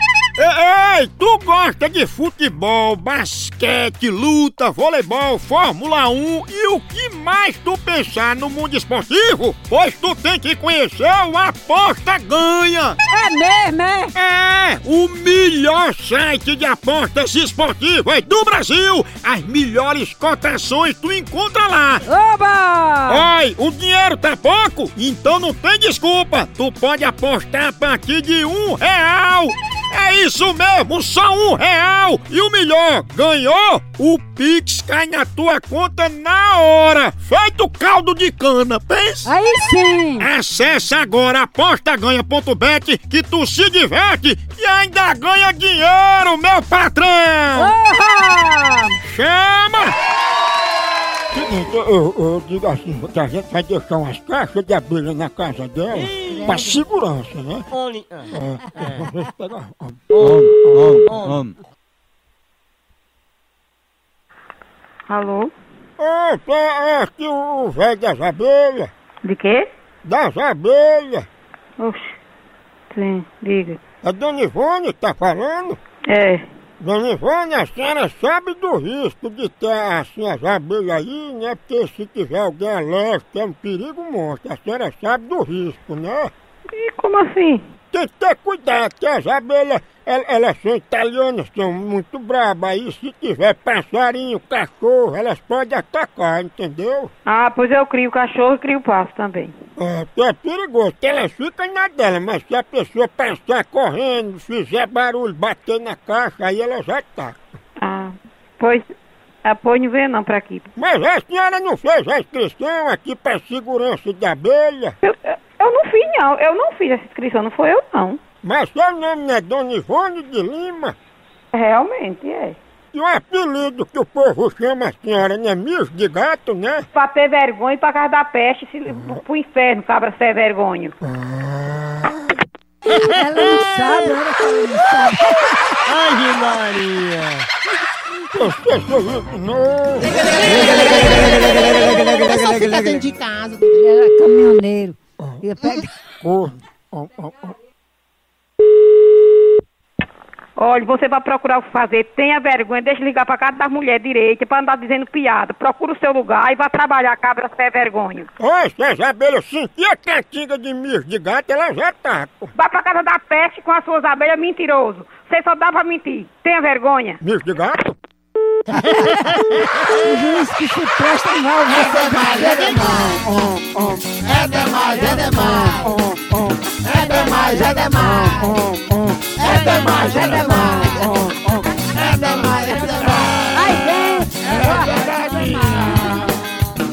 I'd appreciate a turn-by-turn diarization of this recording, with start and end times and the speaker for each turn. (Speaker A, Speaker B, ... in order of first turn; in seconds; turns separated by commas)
Speaker A: 0.4-13.0, Speaker B: 13.1-14.1, Speaker A: 14.1-22.1, Speaker B: 22.1-23.3, Speaker A: 23.1-39.3, Speaker B: 39.2-40.3, Speaker A: 40.2-47.8, Speaker B: 47.6-49.0, Speaker A: 49.0-50.0, Speaker A: 51.3-57.7, Speaker C: 55.9-56.5, Speaker C: 57.7-58.3, Speaker A: 58.3-61.1, Speaker C: 60.1-61.5, Speaker D: 65.1-65.5, Speaker A: 66.0-68.9, Speaker D: 69.2-69.7, Speaker A: 70.0-71.3, Speaker D: 71.8-72.2, Speaker D: 72.9-73.8, Speaker A: 74.0-75.8, Speaker D: 76.1-76.4, Speaker A: 76.8-86.3, Speaker D: 86.8-87.6, Speaker A: 87.9-97.1, Speaker D: 97.3-99.5, Speaker A: 99.8-107.4, Speaker D: 107.8-108.9, Speaker D: 109.4-110.7, Speaker A: 110.8-115.0, Speaker D: 115.0-118.2, Speaker A: 118.4-121.0, Speaker D: 121.5-122.6, Speaker A: 122.9-126.9, Speaker D: 126.9-130.9, Speaker A: 131.1-132.2, Speaker B: 132.9-135.7, Speaker C: 135.9-137.5, Speaker A: 138.3-140.6, Speaker E: 140.3-143.7, Speaker C: 141.2-143.1, Speaker B: 143.7-145.9, Speaker A: 145.2-145.4, Speaker A: 146.2-147.5, Speaker D: 150.6-158.3, Speaker A: 158.4-162.5, Speaker D: 162.6-167.2, Speaker A: 167.2-168.0, Speaker B: 168.8-169.3, Speaker B: 169.9-172.8, Speaker E: 171.7-173.2, Speaker E: 174.1-175.9, Speaker E: 176.8-178.6, Speaker B: 176.9-178.3, Speaker A: 178.7-181.1, Speaker E: 179.4-180.9, Speaker B: 179.5-181.2, Speaker E: 181.9-183.5, Speaker A: 182.0-183.6, Speaker B: 183.5-186.2, Speaker A: 184.4-186.3